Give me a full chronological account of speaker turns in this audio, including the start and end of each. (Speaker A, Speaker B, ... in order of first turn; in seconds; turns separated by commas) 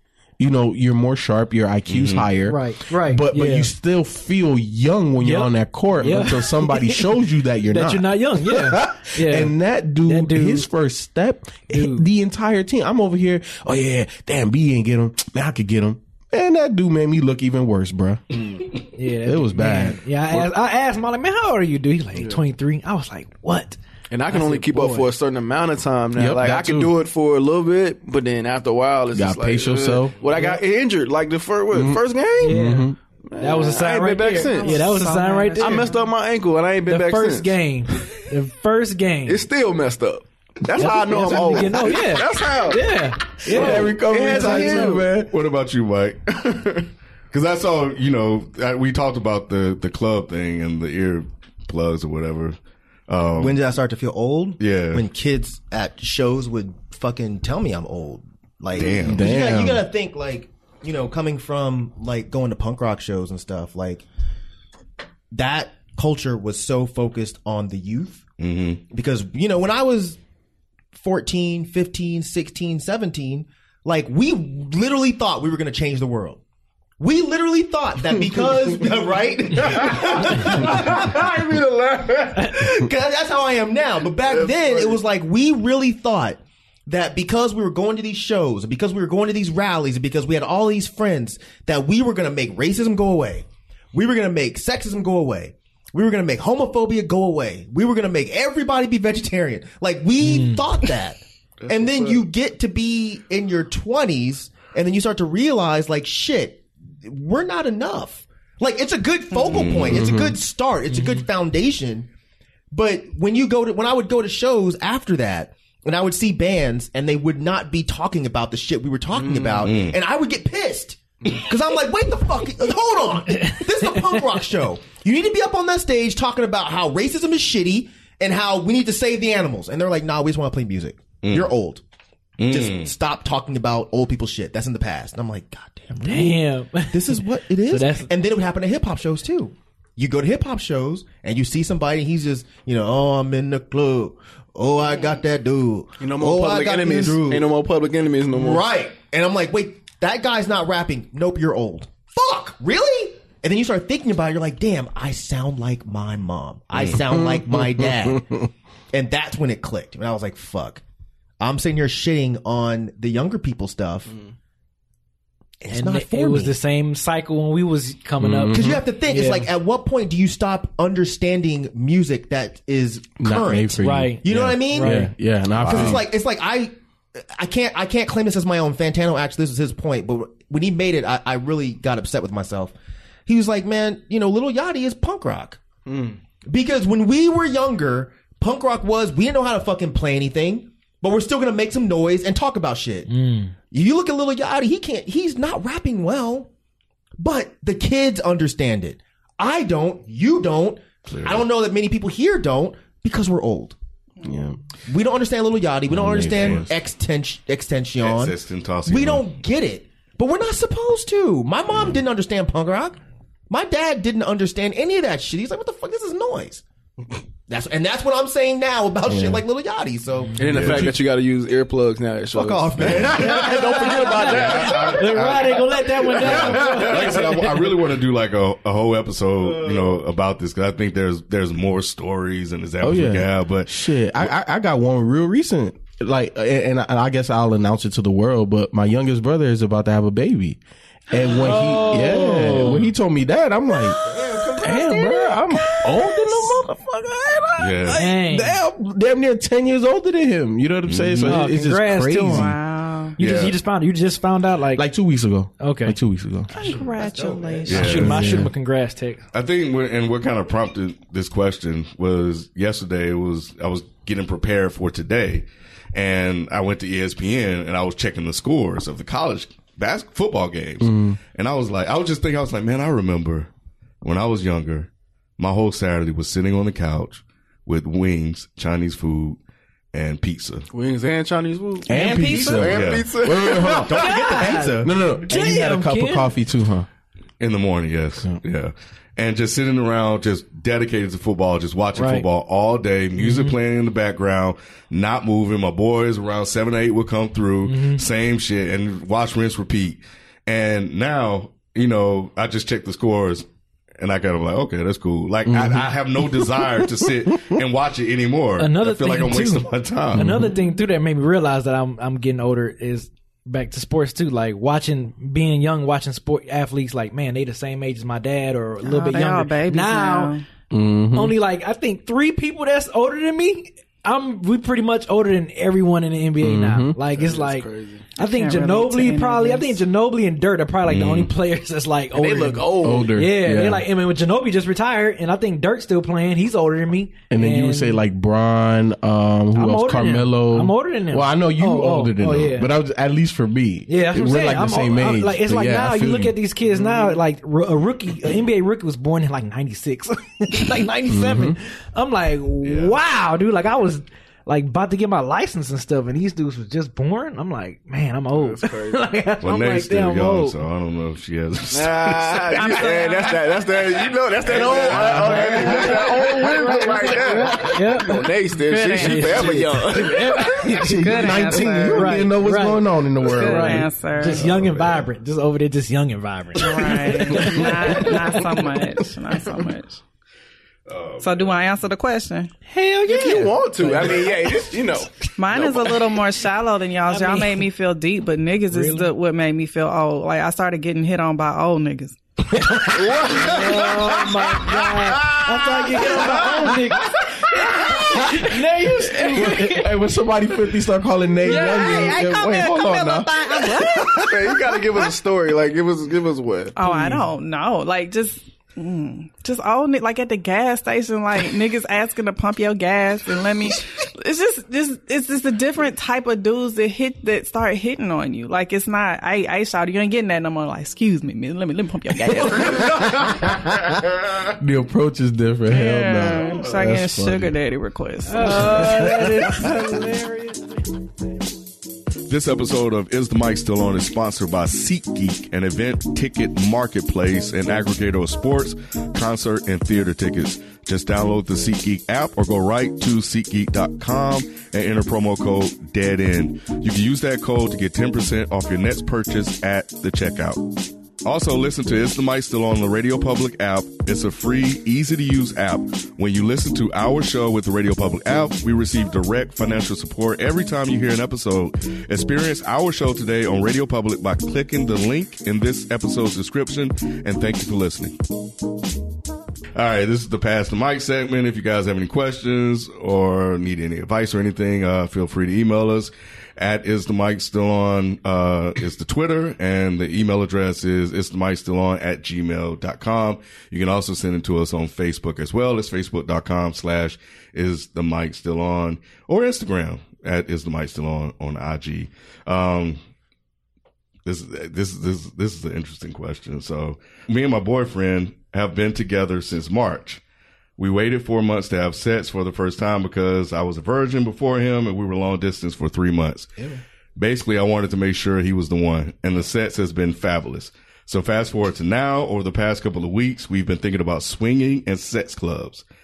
Speaker A: 0.4-18.2, Speaker B: 1.9-2.3, Speaker C: 2.5-3.7, Speaker C: 5.2-10.7, Speaker C: 11.7-12.1, Speaker D: 18.4-18.6, Speaker C: 18.9-25.1, Speaker A: 19.2-20.0, Speaker D: 22.1-22.4, Speaker D: 24.1-32.6, Speaker A: 26.1-27.0, Speaker A: 29.1-30.2, Speaker C: 30.3-30.6, Speaker A: 31.7-33.0, Speaker C: 32.4-35.9, Speaker D: 33.2-35.0, Speaker E: 34.3-36.0, Speaker D: 35.6-37.6, Speaker C: 36.9-39.5, Speaker D: 39.3-45.1, Speaker C: 40.8-45.0, Speaker A: 41.0-41.5, Speaker A: 43.5-45.3, Speaker B: 45.2-46.5, Speaker D: 46.4-46.8, Speaker B: 47.3-52.6, Speaker B: 53.1-53.6, Speaker F: 53.3-64.0, Speaker B: 54.6-55.0, Speaker B: 58.7-59.3, Speaker A: 59.0-59.8, Speaker F: 65.3-68.2, Speaker B: 68.4-68.8, Speaker F: 68.9-70.2, Speaker F: 70.9-76.4, Speaker F: 77.0-81.4, Speaker D: 79.6-82.6, Speaker F: 82.5-112.1, Speaker D: 84.3-84.9, Speaker C: 100.2-100.6, Speaker D: 101.6-102.2, Speaker B: 109.5-110.0, Speaker A: 109.8-110.4, Speaker C: 110.9-111.2, Speaker F: 112.7-131.8, Speaker D: 119.2-119.7, Speaker B: 119.6-120.0, Speaker C: 123.4-123.7, Speaker B: 131.2-131.5, Speaker B: 132.4-132.9, Speaker F: 132.5-147.5, Speaker C: 136.0-138.1, Speaker D: 146.0-148.6, Speaker F: 148.3-158.3, Speaker A: 157.1-158.5, Speaker F: 158.9-160.8, Speaker F: 161.4-164.1, Speaker F: 165.6-166.6, Speaker C: 165.7-169.5, Speaker A: 168.2-168.8, Speaker F: 168.5-182.7, Speaker A: 173.2-176.0, Speaker C: 173.8-175.1, Speaker B: 175.5-176.0, Speaker F: 183.2-185.6, Speaker D: 185.8-186.2, Speaker F: 186.5-193.1, Speaker C: 193.1-193.5, Speaker F: 193.7-196.5, Speaker F: 197.2-203.8, Speaker B: 201.1-201.4, Speaker A: 204.2-204.6, Speaker F: 204.9-213.0, Speaker A: 205.9-206.7, Speaker B: 206.3-206.7, Speaker B: 208.0-209.2, Speaker F: 213.5-216.6, Speaker F: 217.5-220.4, Speaker A: 219.1-219.4, Speaker D: 220.3-224.9, Speaker B: 220.4-220.9, Speaker A: 220.6-220.9, Speaker F: 222.3-224.8, Speaker B: 222.8-225.6, Speaker C: 224.7-227.3, Speaker B: 226.1-234.3, Speaker D: 226.3-227.1, Speaker A: 232.8-240.6, Speaker A: 241.1-252.6, Speaker C: 241.4-242.9, Speaker C: 244.6-245.1, Speaker B: 247.6-248.1, Speaker C: 247.9-248.6, Speaker B: 250.8-251.4, Speaker C: 251.2-252.6, Speaker E: 252.3-253.2, Speaker C: 253.2-254.9, Speaker B: 253.2-253.6, Speaker A: 254.7-256.5, Speaker C: 255.6-256.0, Speaker E: 256.5-258.1, Speaker F: 256.6-257.7, Speaker B: 257.7-258.4, Speaker C: 257.7-259.2, Speaker A: 257.8-258.5, Speaker B: 259.3-273.5, Speaker A: 270.8-271.2, Speaker B: 274.0-279.4, Speaker B: 279.9-280.7, Speaker D: 280.7-283.9, Speaker A: 281.9-286.9, Speaker E: 281.9-282.7, Speaker B: 282.6-283.2, Speaker C: 283.8-286.3, Speaker F: 283.8-284.9, Speaker B: 287.4-303.5, Speaker C: 291.9-292.2, Speaker C: 293.2-293.5, Speaker C: 297.6-298.0, Speaker B: 304.0-310.2, Speaker A: 305.4-307.6, Speaker C: 308.6-320.3, Speaker A: 310.1-310.5, Speaker E: 318.8-320.4, Speaker A: 320.7-321.4, Speaker C: 321.1-338.0, Speaker A: 326.4-327.0, Speaker D: 327.1-328.1, Speaker E: 328.2-329.8, Speaker B: 330.9-331.3, Speaker D: 332.1-333.1, Speaker A: 332.8-333.9, Speaker A: 337.3-346.8, Speaker C: 339.5-342.7, Speaker C: 343.9-360.6, Speaker A: 351.1-351.6, Speaker B: 352.6-353.0, Speaker D: 358.3-359.0, Speaker B: 359.4-362.7, Speaker D: 361.7-370.7, Speaker E: 362.5-363.6, Speaker B: 364.4-366.8, Speaker A: 364.8-365.5, Speaker C: 365.1-368.2, Speaker E: 368.6-369.6, Speaker C: 369.0-378.4, Speaker A: 370.6-373.9, Speaker E: 370.8-372.2, Speaker E: 373.2-374.4, Speaker B: 374.2-375.1, Speaker E: 376.6-380.0, Speaker B: 380.9-381.6, Speaker E: 381.2-382.5, Speaker C: 382.7-384.7, Speaker D: 383.1-385.9, Speaker E: 385.4-392.2, Speaker C: 387.1-387.6, Speaker C: 388.7-389.1, Speaker C: 392.6-399.9, Speaker D: 392.8-395.6, Speaker A: 397.8-404.6, Speaker E: 401.4-404.3, Speaker D: 404.1-406.8, Speaker E: 406.8-423.4, Speaker C: 406.8-407.2, Speaker A: 422.4-427.5, Speaker E: 425.7-429.6, Speaker C: 428.3-430.8, Speaker A: 428.6-429.6, Speaker B: 432.3-450.7, Speaker B: 451.2-468.2, Speaker B: 469.7-493.0, Speaker B: 494.2-500.2, Speaker B: 500.8-506.5, Speaker B: 507.1-515.8